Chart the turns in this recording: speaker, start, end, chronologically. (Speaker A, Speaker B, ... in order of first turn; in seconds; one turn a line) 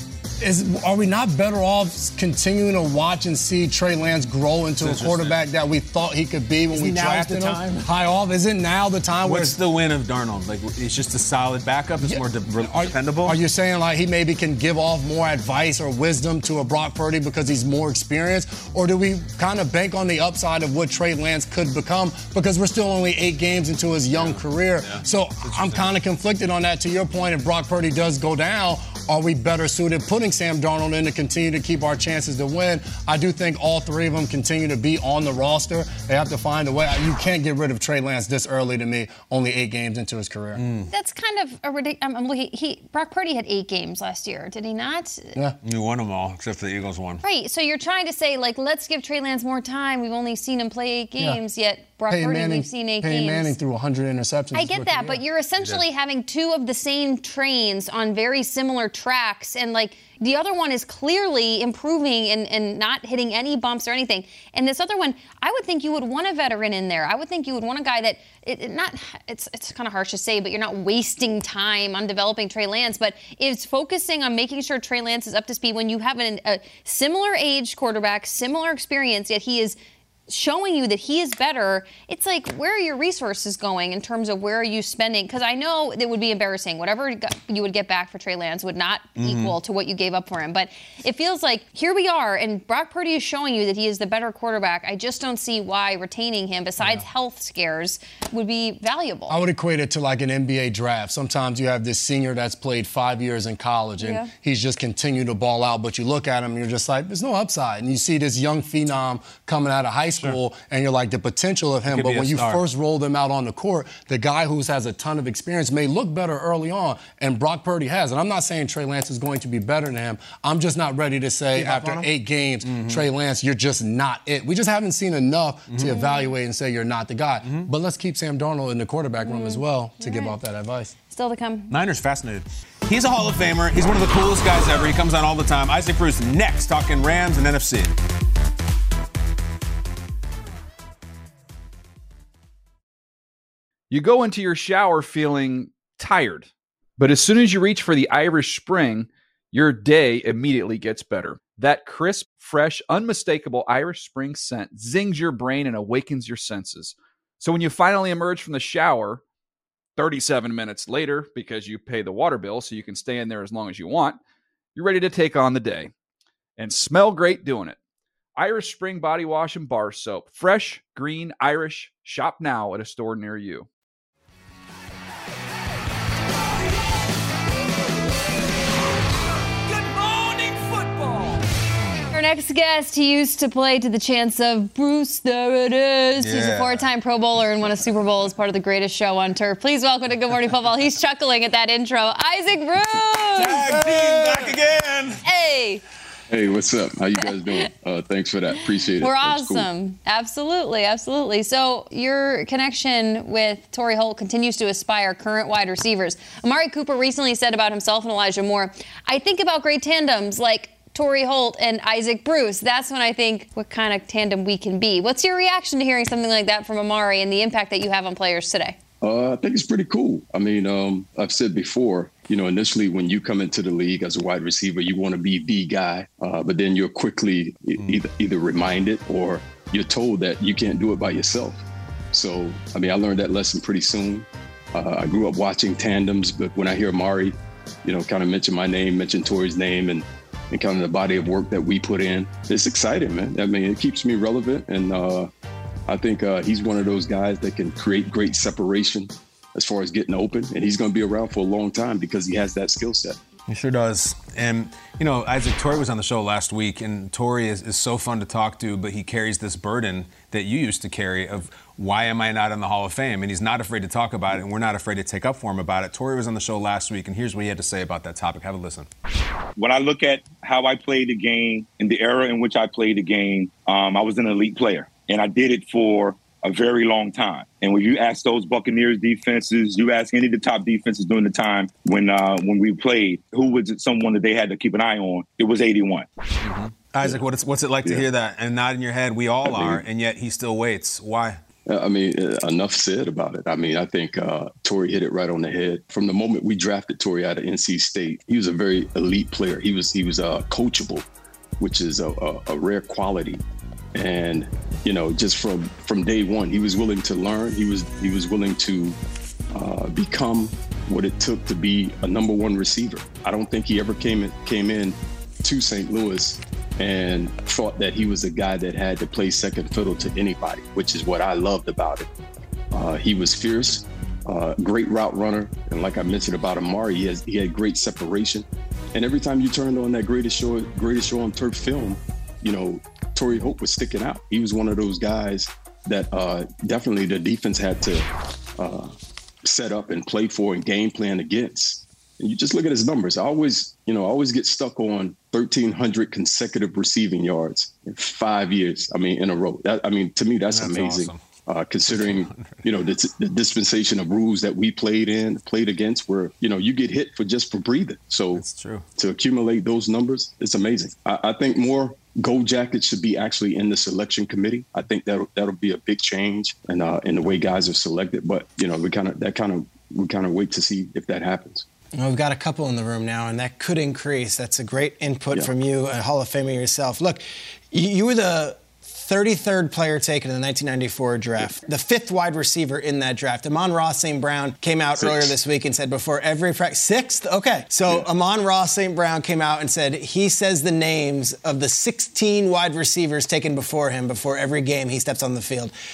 Speaker A: 0.4-9.6
Speaker B: 4.8-5.4
Speaker C: 6.7-7.8
Speaker B: 9.2-13.4
Speaker A: 12.0-40.6
Speaker B: 24.1-25.9
Speaker B: 40.5-40.9
Speaker D: 40.9-45.3
Speaker B: 45.6-47.2
Speaker D: 47.2-53.5
Speaker A: 52.1-55.2
Speaker D: 54.5-79.8
Speaker D: 80.3-99.4
Speaker B: 89.2-89.5
Speaker A: 99.3-130.9
Speaker D: 104.0-104.3
Speaker B: 111.9-112.6
Speaker C: 121.5-122.1
Speaker B: 122.6-123.0
Speaker D: 125.9-126.3
Speaker D: 129.2-130.3
Speaker D: 131.1-131.7
Speaker B: 131.7-137.9
Speaker E: 143.9-159.2
Speaker E: 160.0-164.2
Speaker E: 164.7-165.9
Speaker E: 166.6-167.8
Speaker E: 168.3-173.7
Speaker E: 179.7-181.4
Speaker D: 182.1-193.8
Speaker B: 186.2-186.9
Speaker B: 193.4-195.2
Speaker A: 193.9-194.4
Speaker D: 195.2-195.8
Speaker F: 196.3-199.7
Speaker D: 199.0-218.8
Speaker F: 219.0-245.3
Speaker F: 245.9-253.2
Speaker B: 253.5-268.9
Speaker G: 269.6-286.1
Speaker B: 286.4-291.4
Speaker F: 289.4-289.8
Speaker F: 291.6-301.1
Speaker F: 301.6-303.4
Speaker F: 303.9-309.0
Speaker F: 309.5-322.1
Speaker F: 322.7-338.1
Speaker F: 338.6-338.9
Speaker F: 339.4-358.4
Speaker B: 350.5-351.2
Speaker B: 351.9-352.6
Speaker B: 358.3-358.8
Speaker F: 359.0-371.6
Speaker C: 371.9-395.7
Speaker F: 385.0-385.3